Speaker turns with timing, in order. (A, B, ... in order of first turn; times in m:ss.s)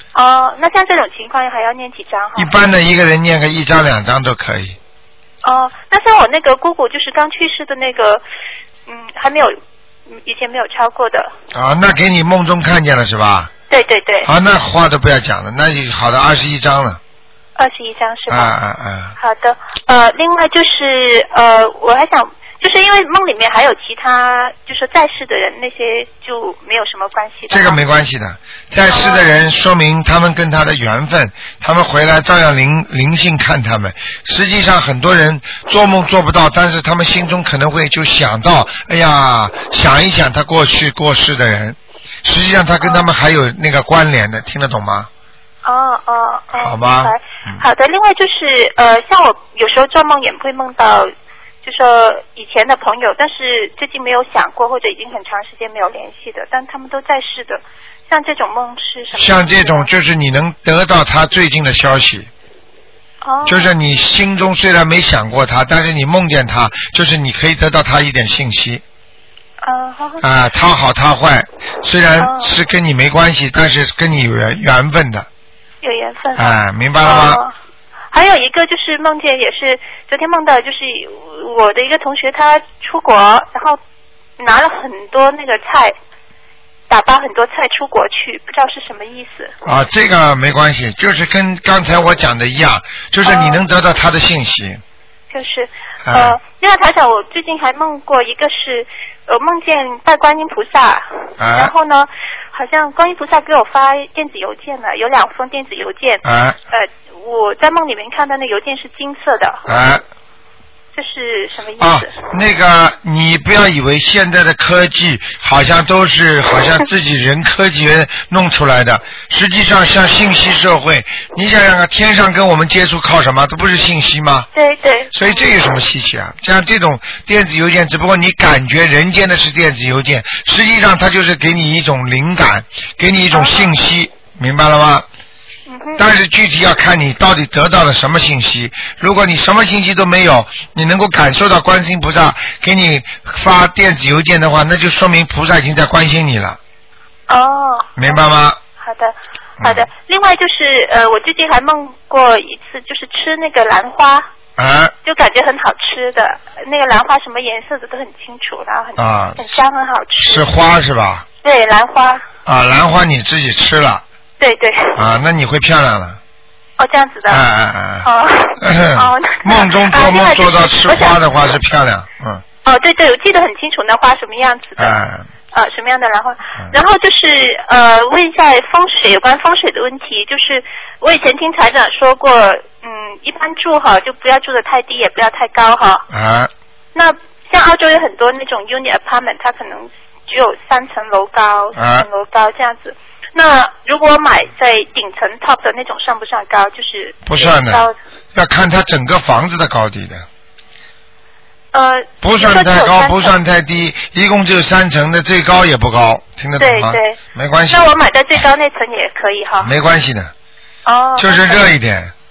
0:00.2-0:02.5 A
0:02.4-0:04.8 B
0:05.4-0:08.2 A
0:08.9-0:09.6 A
0:10.1-0:11.3 A
0:11.5-0:13.5 B
0:13.7-0:14.3 A
0:14.2-0:17.0 B
0:17.6-0:18.5 A
0:18.3-0:19.2 B
0:19.2-0:27.8 A
0:27.5-0:45.1 B
0:28.9-0:29.3 A
0:42.8-0:43.1 A
0:45.6-0:51.1 A
0:46.5-0:47.6 B
0:51.6-0:59.9 A
0:59.2-1:02.3 B
1:03.2-1:03.7 A
1:03.5-1:08.8 B
1:09.6-1:10.2 A
1:10.2-1:15.3 B
1:12.2-1:12.5 A
1:15.8-1:17.5 A
1:16.4-1:17.4 B
1:18.1-1:23.8 A
1:24.4-1:25.9 A
1:26.9-1:29.5 A
1:29.6-1:34.8 B
1:33.2-1:33.6 A
1:35.3-1:49.6 A
1:36.0-1:36.4 B
1:41.4-1:41.7 B
1:46.2-1:46.6 B
1:49.7-1:50.0 B
1:51.0-1:52.1 A
1:51.8-2:04.5 B
2:04.6-2:05.3 A
2:05.1-2:15.1 B
2:13.3-2:13.7 A
2:15.7-2:16.0 A
2:16.0-2:26.6 B
2:27.3-2:28.2 A
2:28.0-2:28.6 B
2:28.8-2:34.3 A
2:29.6-2:29.9 B
2:34.6-2:34.9 B
2:35.0-2:40.5 A
2:39.0-2:39.4 B
2:40.2-2:41.2 B
2:41.4-2:42.2 A
2:42.5-2:44.0 B
2:44.4-2:45.0 A
2:45.0-2:46.2 B
2:46.8-2:47.4 A
2:47.3-2:48.1 B
2:48.0-2:51.2 A
2:48.6-2:52.4 B
2:52.6-2:55.0 A
2:54.8-2:55.3 B
2:55.5-3:06.0 A
3:06.1-3:06.5 B
3:07.0-3:18.0 A
3:11.8-3:12.1 B
3:17.3-3:20.2 B
3:21.7-3:23.4 A
3:22.2-3:27.9 B
3:26.6-3:27.2 A
3:27.7-3:29.7 A
3:29.6-3:30.3 B
3:30.8-3:31.7 A
3:31.2-3:32.1 B